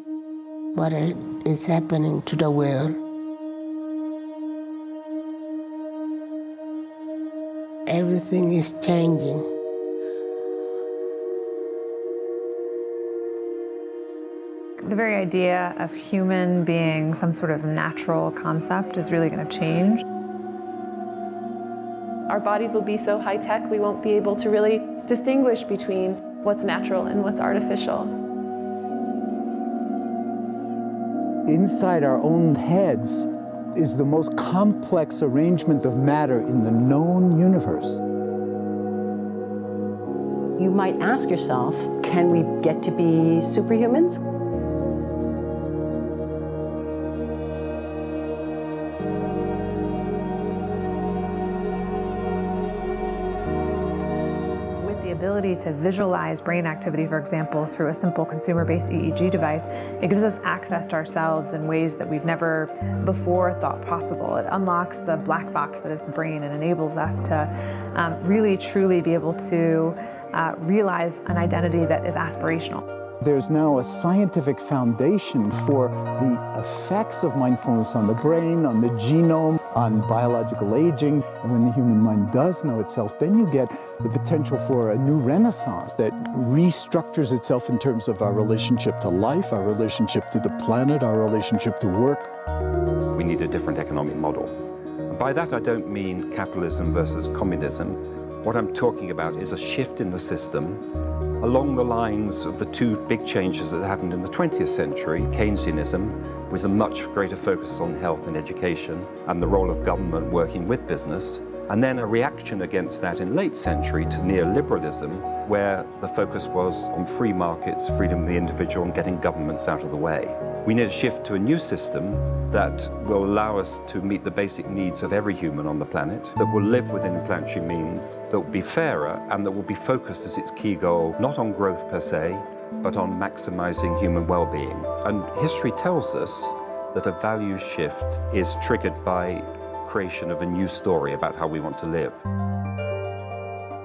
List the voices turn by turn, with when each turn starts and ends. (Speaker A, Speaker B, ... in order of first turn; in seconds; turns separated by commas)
Speaker A: 0.8-3.0, Speaker A: 7.9-9.4, Speaker B: 14.8-20.0, Speaker C: 22.3-28.1, Speaker D: 31.5-38.0, Speaker E: 40.6-44.2, Speaker B: 54.8-72.8, Speaker D: 73.2-92.3, Speaker F: 93.1-94.5, Speaker F: 95.1-100.8, Speaker F: 101.4-142.2